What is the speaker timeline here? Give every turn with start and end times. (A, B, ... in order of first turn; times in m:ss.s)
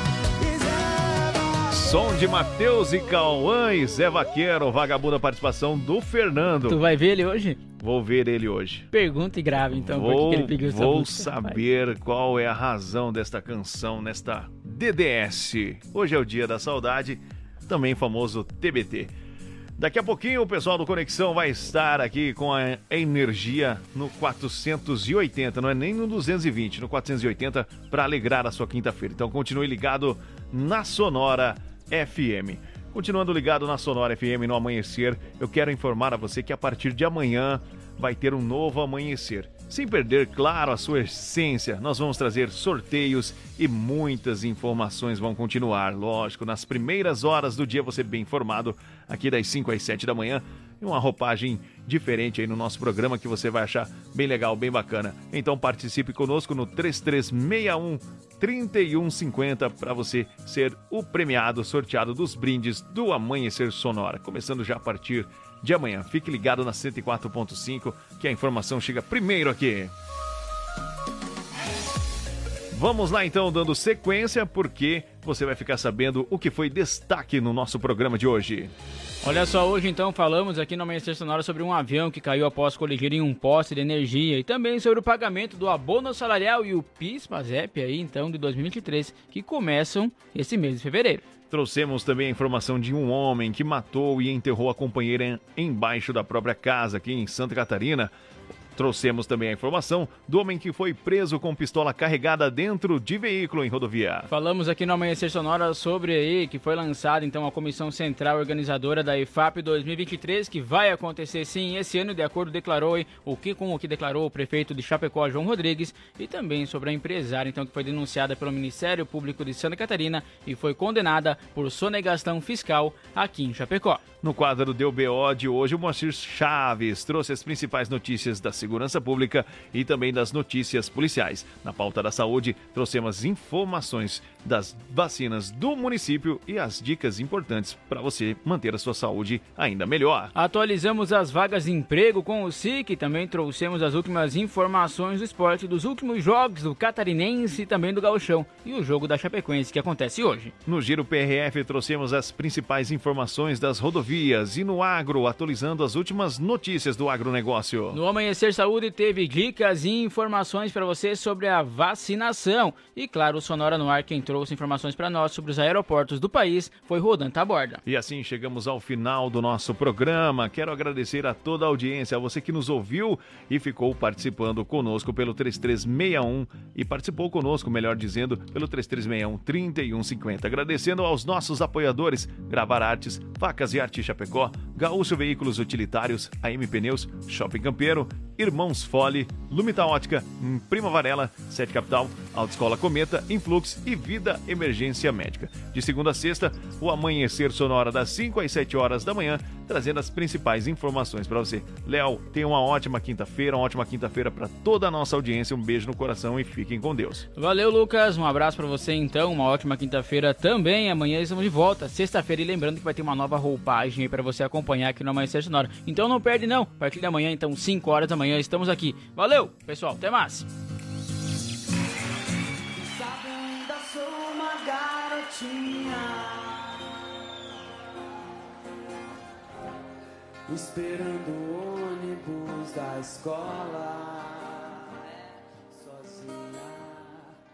0:00.4-0:01.8 A
0:01.7-0:06.8 B
0:06.7-0:07.6 C
0:07.8-0:08.9 B
0:08.9-0:11.6 C
0:09.7-0:19.1 B
0:19.8-1:09.9 B
1:12.7-1:18.7 B
1:19.2-1:31.2 C
1:31.5-1:38.1 B
1:38.7-1:44.3 B
1:44.3-2:04.0 C
2:04.2-2:20.3 B
2:20.3-2:30.5 C
2:30.6-2:38.0 B
2:37.9-2:47.8 C
2:47.8-3:27.3 B
3:27.4-3:40.5 C
3:42.9-3:46.4 A
3:50.5-3:54.9 A
3:55.7-3:57.1 A